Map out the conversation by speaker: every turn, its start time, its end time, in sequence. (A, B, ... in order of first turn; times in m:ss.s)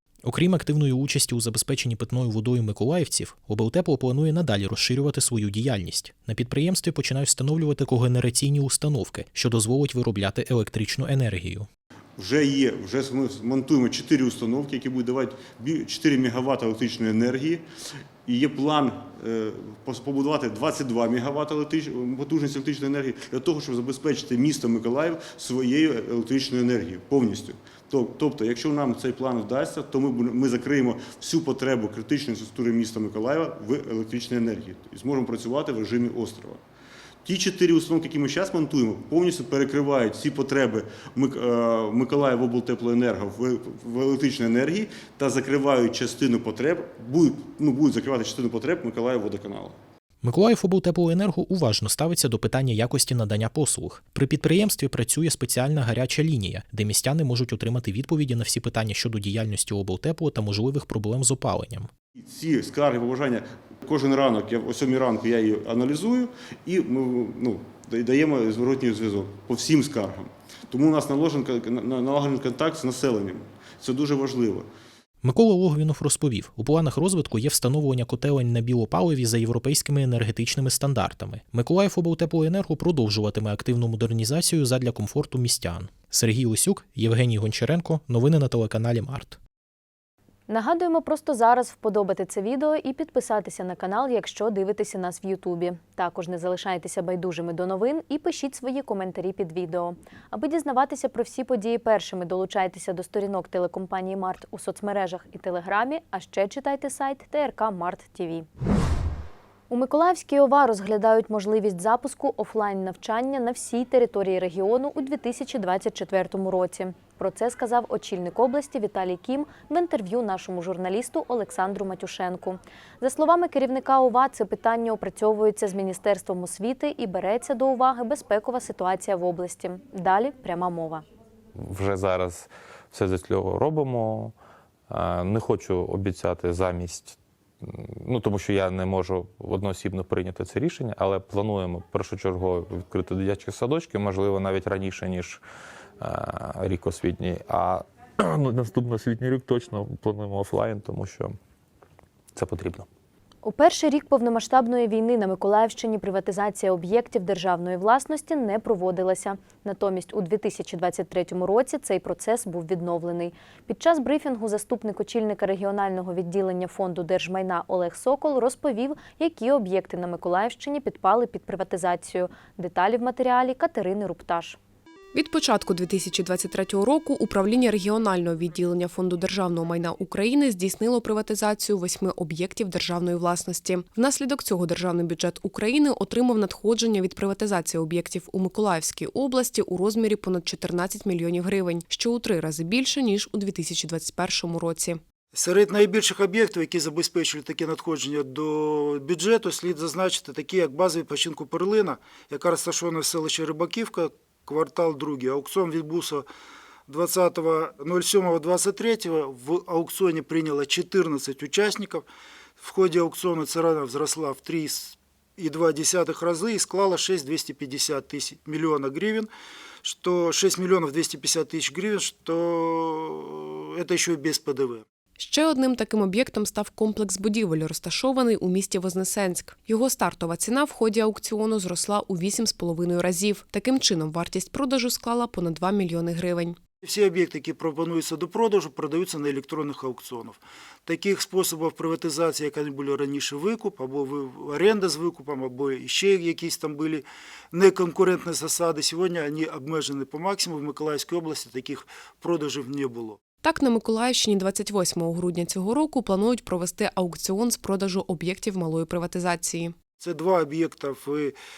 0:00.2-0:11.7 A
0:12.2-0:17.6 B
0:18.3-0:36.6 B
0:37.2-0:49.8 B
0:50.2-1:01.9 A
1:02.2-1:14.7 B
1:15.2-1:29.4 A
1:30.5-1:48.5 C
1:49.7-2:11.0 C
2:11.6-2:14.4 D
2:14.9-2:25.4 D
2:26.0-2:31.4 D
2:32.4-2:32.9 D
2:33.4-2:54.6 C
2:55.1-3:15.0 E
3:15.3-3:26.3 F
3:26.9-3:32.1 F
3:32.6-3:39.3 F
3:39.8-3:44.8 F
3:45.2-3:56.6 E
3:56.8-4:13.2 F
4:13.4-4:19.8 E
4:20.0-4:21.4 F